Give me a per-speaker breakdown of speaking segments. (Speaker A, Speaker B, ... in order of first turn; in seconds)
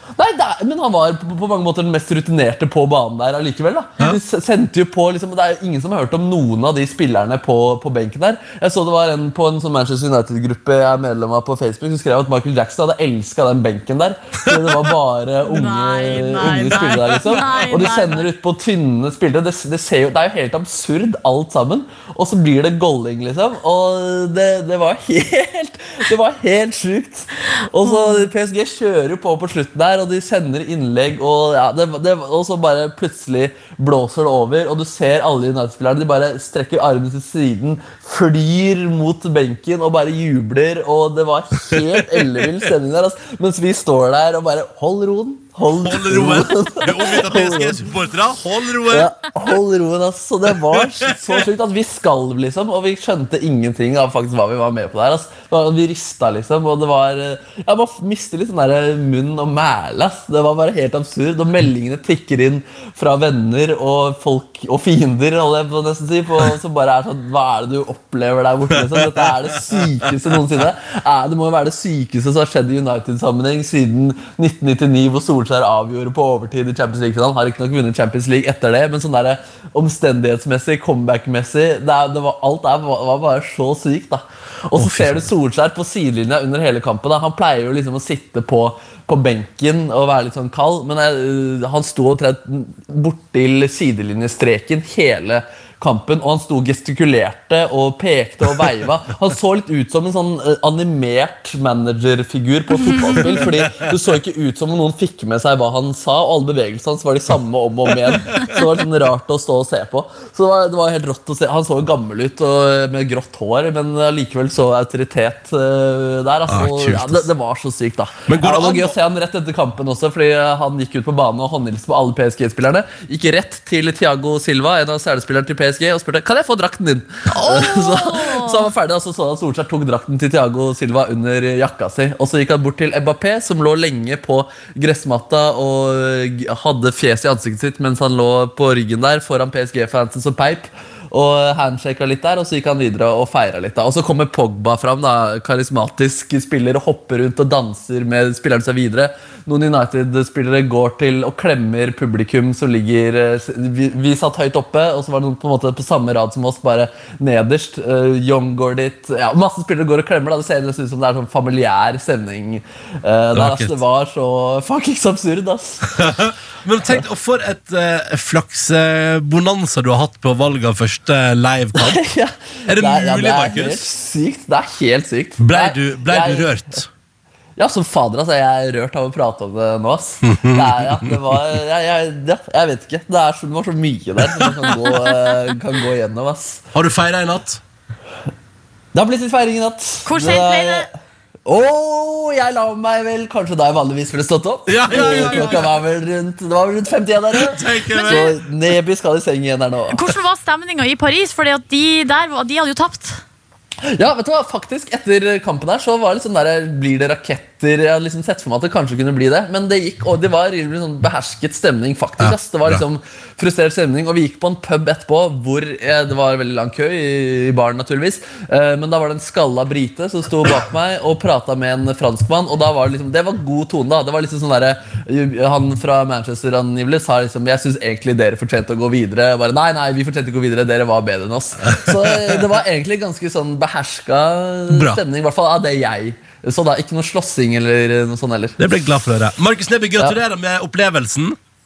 Speaker A: 0.2-47.8, 48.9-165.9, 171.8-176.8, 177.6-186.7, 188.9-190.9, 191.5-200.0, 203.9-238.6
Speaker B: 15.5-18.3, 27.8-28.3, 127.3-128.7, 190.1-190.9, 194.9-195.6, 197.9-198.3, 199.9-203.2
Speaker C: 45.8-49.2, 84.8-85.3, 103.5-103.7, 116.5-117.3, 118.3-119.0, 163.3-163.8, 165.9-172.0, 172.7-173.9, 175.4-176.9, 180.2-181.1, 184.3-184.6, 186.7-187.6, 194.7-195.7, 197.4-198.4, 212.2-212.8, 234.7-235.0, 238.6-241.4